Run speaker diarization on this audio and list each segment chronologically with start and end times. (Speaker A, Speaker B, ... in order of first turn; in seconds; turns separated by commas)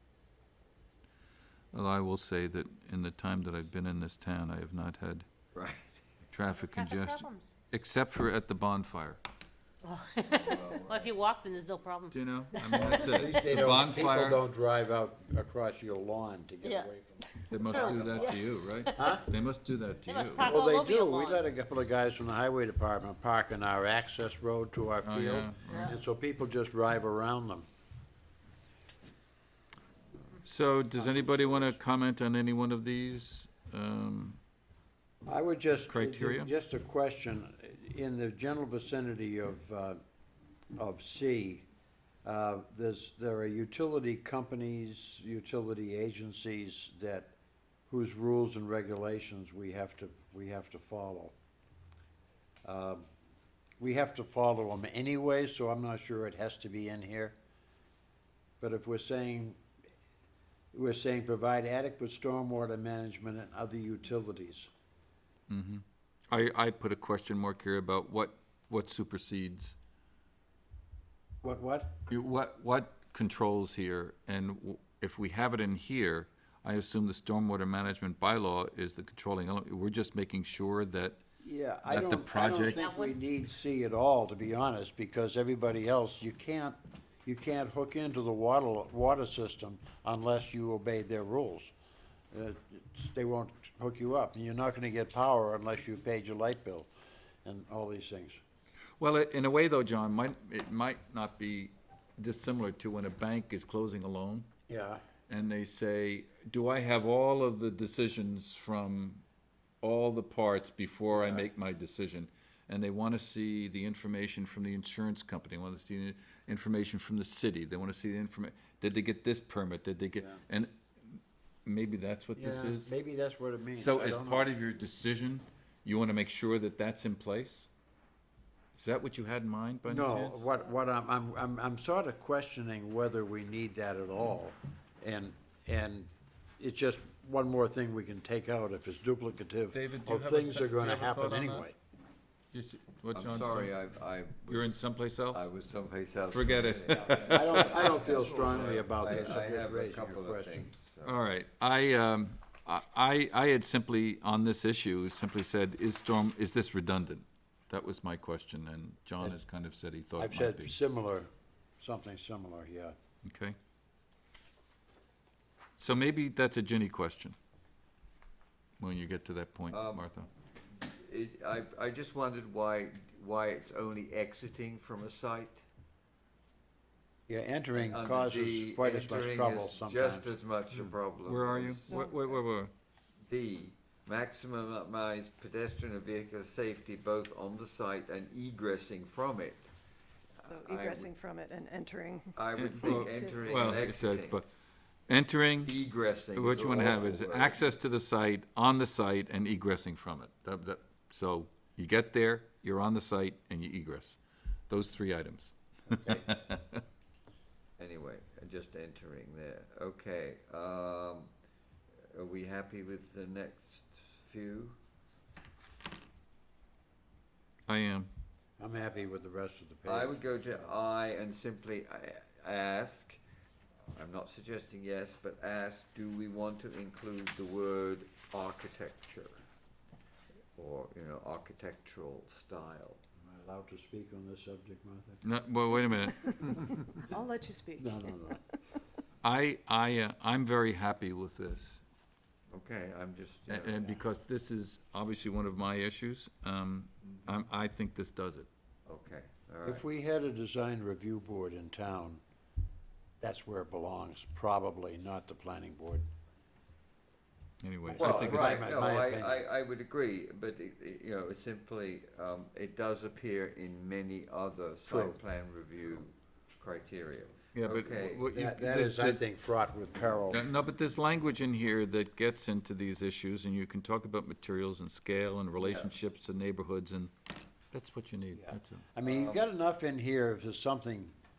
Speaker A: 1.7-5.3, Speaker B: 5.5-5.9, Speaker A: 6.3-9.2, Speaker C: 6.5-7.5, Speaker C: 9.8-13.5, Speaker B: 10.3-11.1, Speaker A: 12.1-14.4, Speaker D: 12.8-18.2, Speaker C: 16.6-16.9, Speaker A: 17.5-20.5, Speaker C: 17.5-19.2, Speaker D: 18.9-19.3, Speaker C: 20.1-21.4, Speaker D: 20.4-27.6, Speaker A: 25.0-25.9, Speaker A: 30.4-34.4, Speaker D: 30.9-31.7, Speaker D: 35.2-40.0, Speaker A: 35.9-36.5, Speaker D: 40.8-41.7, Speaker D: 42.2-47.3, Speaker D: 47.9-51.3, Speaker D: 52.6-53.1, Speaker D: 53.8-57.3, Speaker D: 58.6-59.6, Speaker D: 60.7-64.7, Speaker A: 65.5-69.8, Speaker D: 71.4-72.0, Speaker A: 72.1-81.2, Speaker D: 81.4-91.7, Speaker A: 81.8-82.8, Speaker C: 82.5-83.2, Speaker D: 92.3-96.9, Speaker D: 97.4-98.4, Speaker A: 99.0-104.5, Speaker D: 104.7-105.0, Speaker A: 105.3-109.2, Speaker A: 109.8-123.0, Speaker D: 111.1-111.5, Speaker D: 122.3-124.5, Speaker A: 123.8-127.7, Speaker A: 128.7-130.5, Speaker D: 129.8-141.8, Speaker A: 139.7-141.7, Speaker A: 142.5-143.8, Speaker B: 143.1-151.2, Speaker A: 144.5-145.5, Speaker A: 146.3-149.2, Speaker D: 146.9-150.7, Speaker A: 151.0-160.7, Speaker D: 160.2-162.9, Speaker A: 163.2-163.6, Speaker A: 165.8-167.3, Speaker A: 168.8-170.3, Speaker B: 169.7-170.0, Speaker B: 170.8-175.6, Speaker D: 177.3-180.3, Speaker B: 177.7-182.1, Speaker A: 180.7-182.7, Speaker E: 181.9-182.2, Speaker B: 183.3-189.7, Speaker B: 190.4-191.1, Speaker E: 190.5-193.8, Speaker B: 192.3-194.4, Speaker A: 192.6-194.5, Speaker A: 195.1-195.8, Speaker B: 195.6-197.7, Speaker A: 196.3-206.8, Speaker D: 205.9-206.3, Speaker B: 207.8-211.3, Speaker B: 212.1-214.8, Speaker A: 217.7-218.1, Speaker D: 218.6-220.8, Speaker B: 219.8-223.2, Speaker B: 223.9-229.4, Speaker B: 230.6-233.0, Speaker D: 233.2-235.2, Speaker A: 235.2-236.4, Speaker E: 237.1-238.1, Speaker D: 237.8-238.4, Speaker A: 239.2-241.8, Speaker B: 242.5-243.9, Speaker A: 243.5-248.5, Speaker B: 248.8-249.9, Speaker D: 249.6-252.2, Speaker D: 253.2-256.0, Speaker A: 257.6-258.7, Speaker D: 257.8-259.4, Speaker B: 257.9-268.3, Speaker D: 264.9-265.2, Speaker A: 267.5-269.2, Speaker D: 268.3-270.5, Speaker A: 270.3-277.1, Speaker B: 275.6-275.9, Speaker A: 277.7-278.8, Speaker D: 278.3-281.1, Speaker B: 279.0-279.5